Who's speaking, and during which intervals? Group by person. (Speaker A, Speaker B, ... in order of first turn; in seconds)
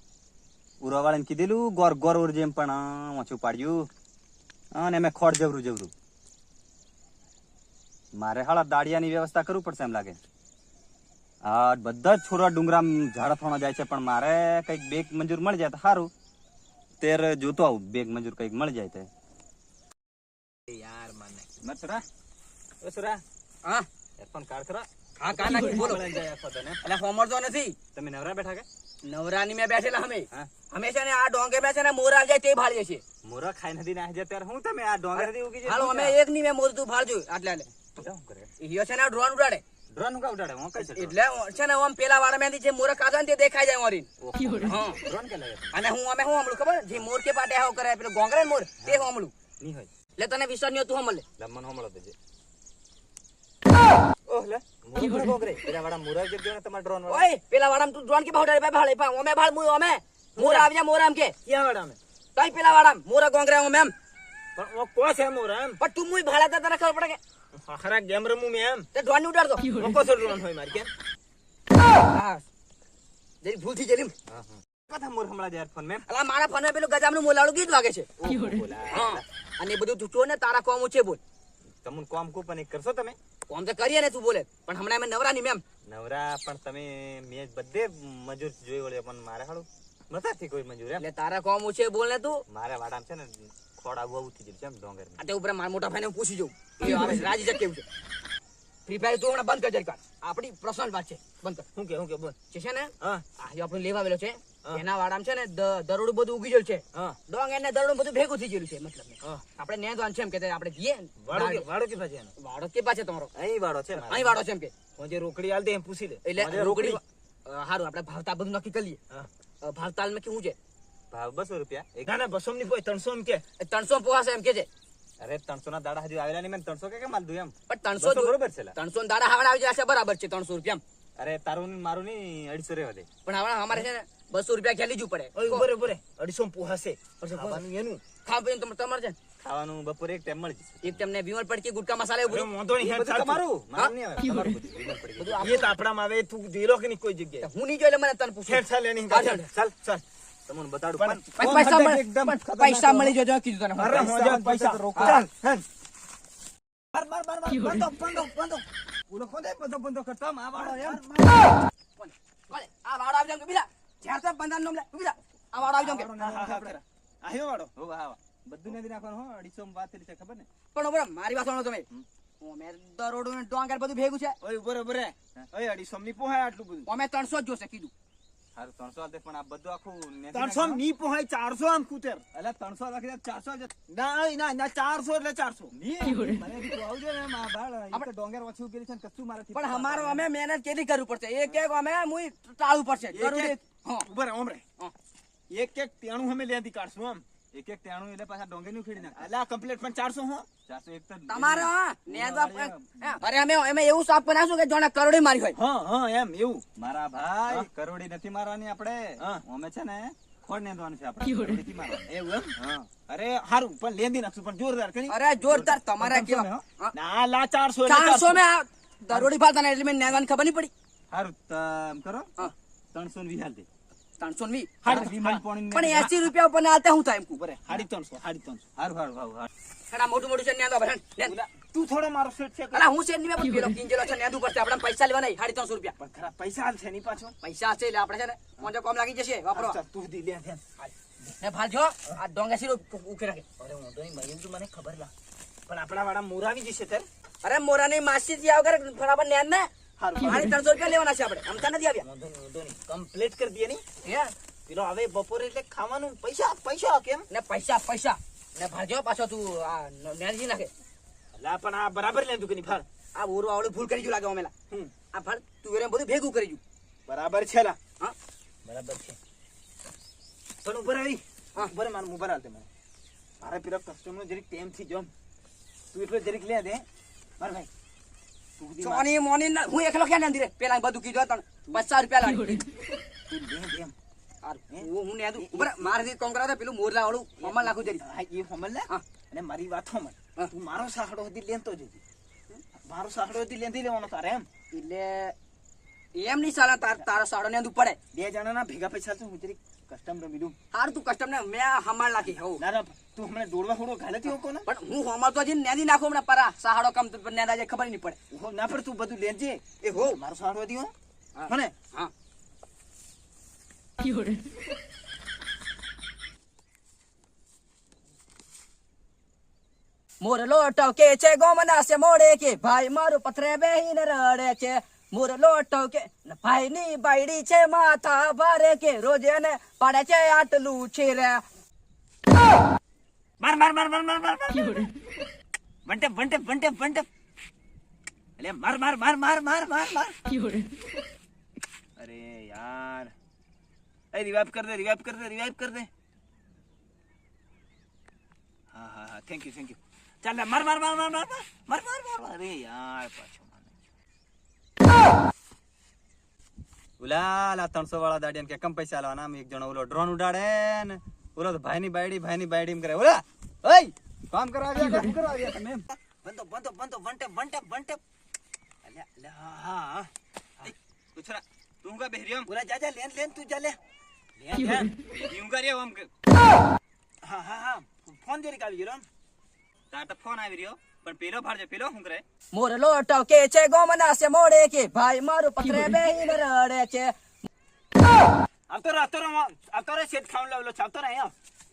Speaker A: 0.8-3.9, 4.7-5.9, 8.1-10.2, 11.4-16.1, 17.0-19.1, 21.6-22.0, 22.8-23.2, 24.2-26.8, 27.9-28.7, 33.2-36.2, 37.9-38.5, 39.9-41.1, 44.2-45.8, 48.8-49.1, 49.6-49.9, 51.4-52.1, 54.3-57.3, 74.3-76.0, 78.2-79.2, 81.8-83.2, 85.9-91.0, 92.5-95.2, 113.6-114.4, 116.4-117.0, 121.1-122.1, 125.2-128.7, 131.2-133.1, 139.4-141.1, 142.8-145.4, 150.5-153.2, 153.8-155.2, 157.0-157.3, 159.1-161.0, 165.7-166.8, 167.8-170.5, 178.6-180.8, 182.3-183.7, 185.7-190.2, 197.5-199.3, 200.7-203.2, 206.8-212.9, 215.4-216.6, 221.1-223.7, 224.8-226.3, 228.8-229.5, 357.0-363.2, 364.3-365.9, 370.6-372.5, 375.1-376.1, 379.9-382.2
Speaker B: 20.7-21.5, 60.4-60.7, 61.5-62.0, 64.6-65.8, 67.5-68.9, 69.8-70.9, 96.8-97.3, 101.8-102.4, 111.2-112.3, 113.4-114.1, 115.0-116.2, 122.0-123.4, 135.3-138.0, 142.3-143.4, 145.4-147.5, 148.5-150.0, 151.0-151.2, 153.8-155.6, 156.9-158.6, 160.5-161.5, 166.2-167.7, 174.4-176.9, 180.3-182.2, 183.9-185.7, 193.1-194.6, 195.5-197.2, 199.0-200.5, 205.6-206.6, 212.1-215.1, 216.9-218.4, 224.8-225.4, 227.3-228.7, 231.2-232.8, 236.0-237.3, 239.5-240.6, 243.6-245.1, 245.7-247.1, 250.0-250.5, 252.0-253.8, 254.7-257.3, 261.4-262.9, 267.1-267.8, 268.6-269.2, 270.6-272.7, 273.4-275.1, 275.9-276.9, 277.4-277.7, 278.6-279.1, 283.3-283.9, 284.7-286.1, 287.4-292.0, 292.9-294.5, 298.1-300.6, 302.3-304.7, 308.3-310.9, 311.5-311.7, 333.4-334.9, 335.9-337.1, 338.4-340.2, 342.0-343.1, 344.1-345.9, 348.7-353.7, 363.6-363.9, 366.2-368.0, 368.8-370.1, 372.5-373.8, 374.4-374.9, 377.2-379.1, 388.7-391.3
Speaker C: 25.2-26.1, 26.8-27.8, 29.0-33.0, 35.2-37.7, 38.6-39.6, 40.8-44.1, 44.6-45.0, 45.7-49.3, 50.2-51.2, 57.1-61.4, 62.4-63.9, 65.8-67.2, 68.9-69.7, 72.1-72.4, 73.4-74.1, 76.1-78.1, 78.9-81.2, 83.5-85.6, 91.0-92.4, 95.2-97.9, 98.9-101.7, 102.5-111.7, 112.4-113.3, 114.1-114.7, 116.2-119.0, 119.6-120.6, 123.6-124.7, 127.7-130.8, 133.2-135.7, 137.3-137.6, 138.2-139.2, 140.8-142.5, 145.2-145.7, 147.4-149.5, 151.4-154.1, 155.0-155.3, 162.0-166.1, 170.7-171.9, 172.4-174.4, 176.9-177.9, 189.5-194.1, 201.3-205.6, 215.1-216.9, 217.9-220.7, 224.2-225.0, 225.7-227.4, 229.9-231.3, 232.7-235.9, 237.4-239.8, 240.8-243.4, 247.4-252.1, 254.0-254.3, 257.3-260.7, 263.1-264.5, 265.1-266.6, 278.8-282.6, 284.4-288.0, 294.7-295.4, 296.1-298.0, 300.7-302.6, 304.6-308.2, 309.8-310.2, 311.4-312.1, 320.2-331.4, 382.5-387.1